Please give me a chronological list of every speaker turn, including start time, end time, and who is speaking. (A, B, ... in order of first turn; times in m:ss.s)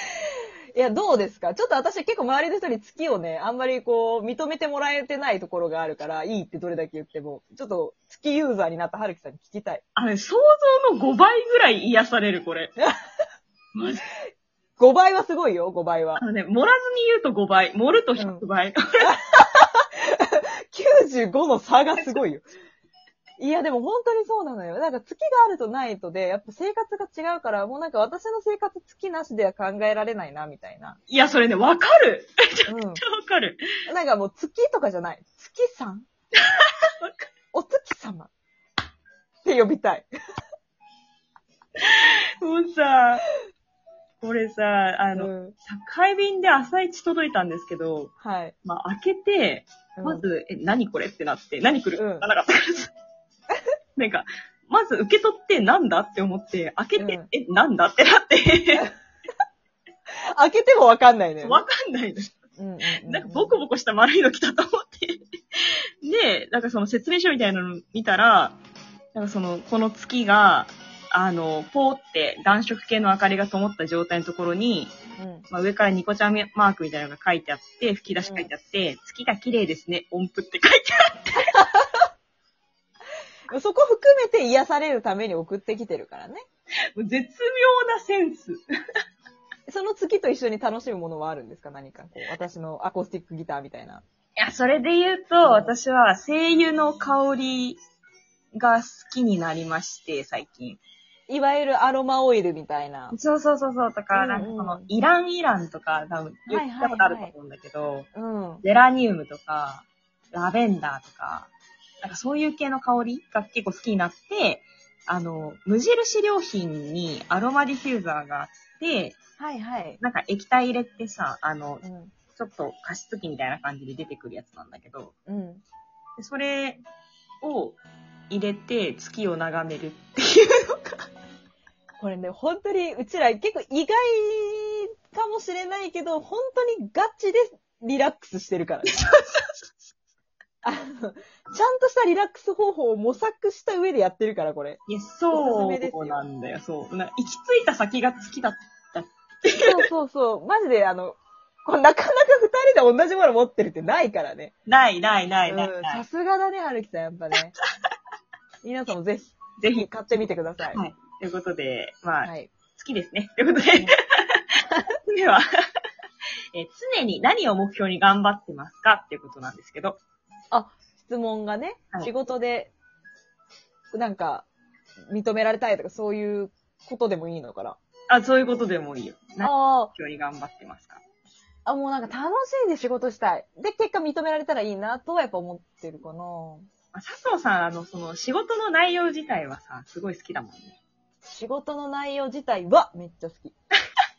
0:00.8-0:09.8 A
0:10.0-0:12.7 B
0:13.7-0:14.0 B
0:14.8-0:16.2 A
0:16.2-0:19.2 B
0:18.2-0:18.4 A
0:19.0-0:22.5 A
0:22.0-0:22.2 B
0:23.4-0:31.0 A
0:31.1-0:33.6 B
0:32.7-0:33.0 A
0:33.9-0:36.1 A
0:36.6-0:37.3 B
0:37.5-0:38.3 A
0:39.4-0:40.1 A
0:41.8-0:43.2 B
0:44.2-0:48.1 B
0:45.1-0:45.6 A
0:48.2-0:48.5 A
0:48.6-0:52.9 B
0:50.0-0:50.3 A
0:52.0-0:52.3 A
0:54.0-0:58.9 B
0:57.0-0:57.3 A
1:00.4-1:01.6 A
1:01.4-1:02.3 B
1:02.6-1:03.6 A
1:03.0-1:08.6 B
1:09.2-1:15.0 B
1:15.2-1:15.5 A
1:15.5-1:21.6 B
1:18.2-1:18.5 A
1:21.5-1:22.0 A
1:23.5-1:26.4 A
1:27.0-1:28.6 B
1:29.7-1:34.0 A
1:34.4-1:37.8 B
1:35.4-1:35.7 A
1:38.5-1:40.8 B
1:41.3-1:43.2 A
1:43.1-1:48.1 B
1:44.1-1:44.9 A
1:46.5-1:47.3 A
1:48.1-1:48.6 A
1:48.6-1:51.5 B
1:52.0-1:59.2 B
1:59.4-2:00.0 A
2:00.0-2:01.8 B
2:01.8-2:02.1 A
2:02.4-2:05.1 B
2:05.3-2:05.6 A
2:06.2-2:06.8 B
2:07.4-2:07.8 B
2:08.3-2:11.0 B
2:12.0-2:19.0 A
2:18.9-2:19.4 B
2:20.6-2:24.8 A
2:24.9-2:29.8 B
2:25.3-2:26.2 A
2:29.6-2:34.5 A
2:34.7-2:36.0 B
2:35.5-2:37.6 A
2:38.6-2:40.8 A
2:39.6-2:44.4 B
2:42.2-2:42.5 A
2:45.0-2:45.4 B
2:46.5-2:50.0 B
2:50.5-2:52.7 A
2:53.9-2:54.5 A
2:55.1-2:57.8 A
2:58.1-3:01.0 B
2:59.4-2:59.9 A
3:01.7-3:06.7 A
3:06.9-3:10.8 B
3:11.3-3:13.5 A